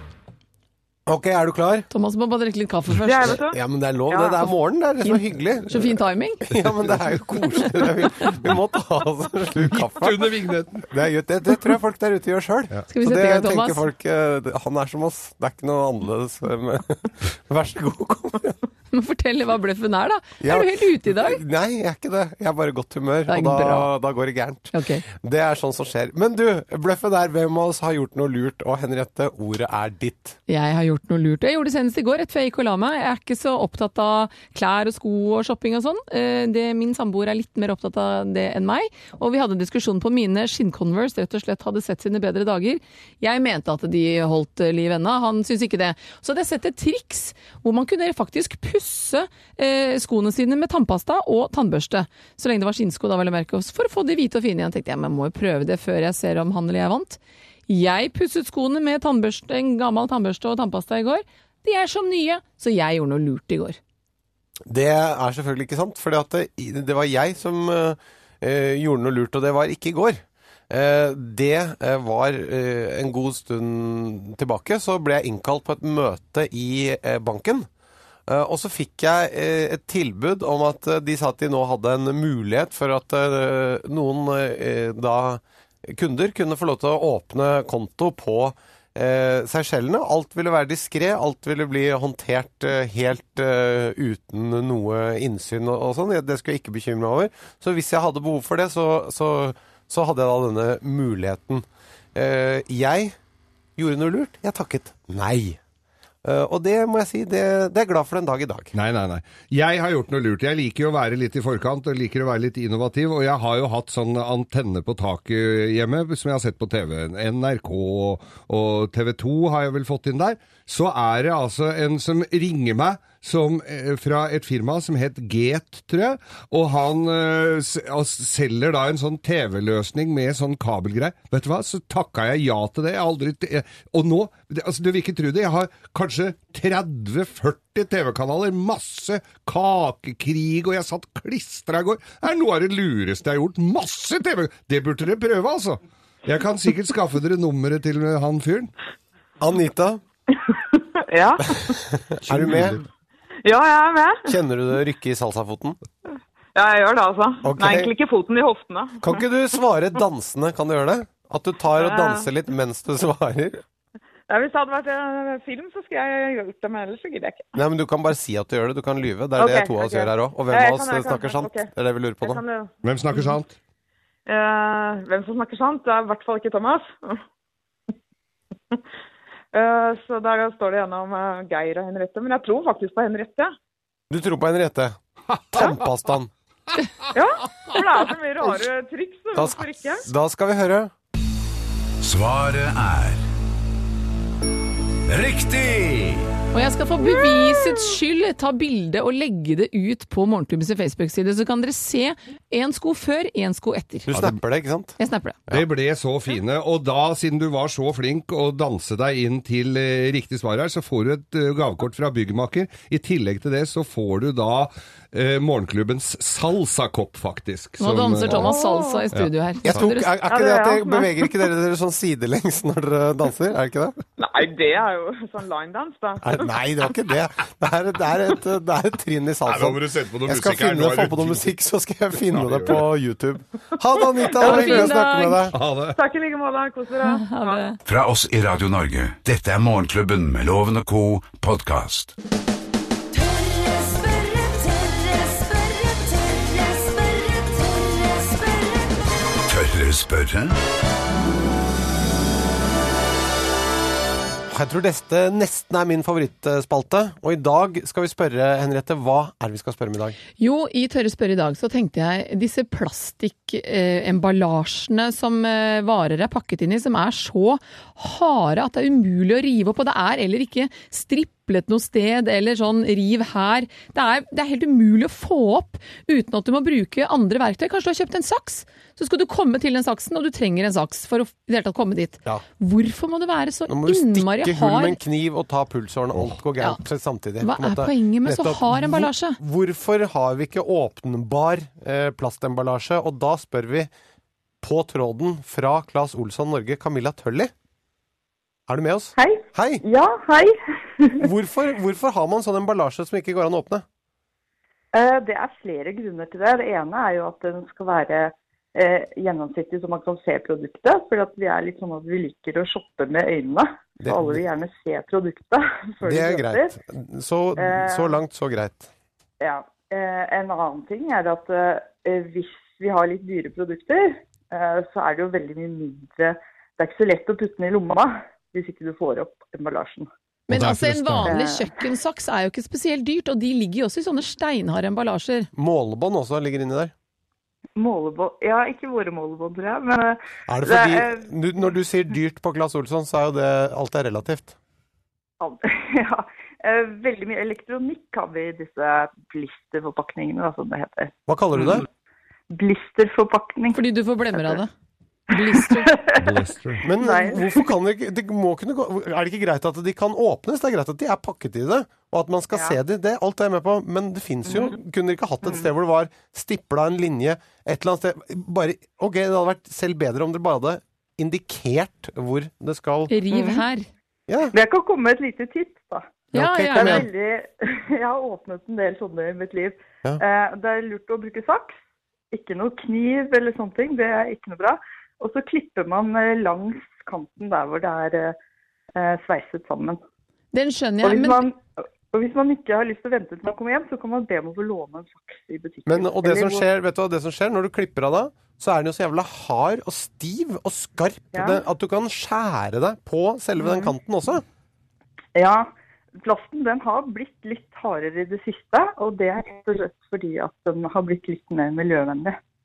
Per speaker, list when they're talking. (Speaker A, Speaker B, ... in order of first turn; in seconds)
Speaker A: 1.1-1.9, 3.5-5.9, 6.5-10.4, 10.9-18.6, 20.4-30.4, 64.7-77.7, 78.3-103.2, 103.8-105.6, 106.2-108.7, 149.4-150.0, 151.9-152.8, 154.2-155.8, 157.4-157.9, 159.0-163.6, 167.6-172.4, 184.1-185.0, 185.5-186.3, 189.3-190.9, 204.1-204.9, 219.7-224.0, 226.2-235.5, 254.5-260.2, 283.7-293.9, 294.6-297.5, 298.7-299.8, 301.2-303.8, 314.0-314.4, 316.0-318.9, 335.5-336.9, 340.5-344.5, 351.3-351.9, 356.8-373.1, 374.3-374.5, 376.3-377.1, 395.9-404.4
Speaker B: 1.9-3.4, 5.0-6.5, 12.9-13.8, 18.9-21.4, 23.3-23.9, 24.7-25.0, 30.5-63.8, 196.5-204.1, 205.0-205.4, 217.8-220.1, 234.4-235.4, 237.0-237.8, 260.4-285.0, 287.4-289.4, 330.5-335.5, 353.7-354.7, 355.3-355.9, 373.1-373.9, 376.3-377.1, 390.5-391.5
Speaker C: 3.0-3.6, 4.1-4.5, 150.3-151.8, 153.4-154.4, 156.5-159.2, 161.8-162.3, 164.3-167.5, 169.4-173.3, 174.2-177.2, 179.5-183.5, 187.1-190.1, 218.4-219.1, 220.2-221.4, 224.2-226.6, 234.2-235.0, 235.9-237.7
Speaker D: 9.7-10.8, 108.7-148.7, 152.2-152.8, 172.8-173.5, 185.3-185.7, 205.5-218.5, 219.1-219.8, 229.4-231.5, 232.2-232.9, 235.5-236.0, 330.5-331.3, 356.2-356.9
Speaker E: 192.0-193.2, 195.1-196.3, 237.8-242.1, 249.5-250.6
Speaker F: 243.1-249.1
Speaker G: 299.2-301.2, 304.9-316.7, 317.6-318.1, 319.4-330.1, 331.2-331.7, 337.8-341.3, 345.4-351.1, 352.5-354.6, 355.4-356.4, 356.9-357.7, 362.5-362.8, 373.3-373.6, 374.5-376.2, 376.7-381.8, 382.3-388.4, 388.9-390.0, 391.0-396.6, 401.3-401.6, 405.3-412.4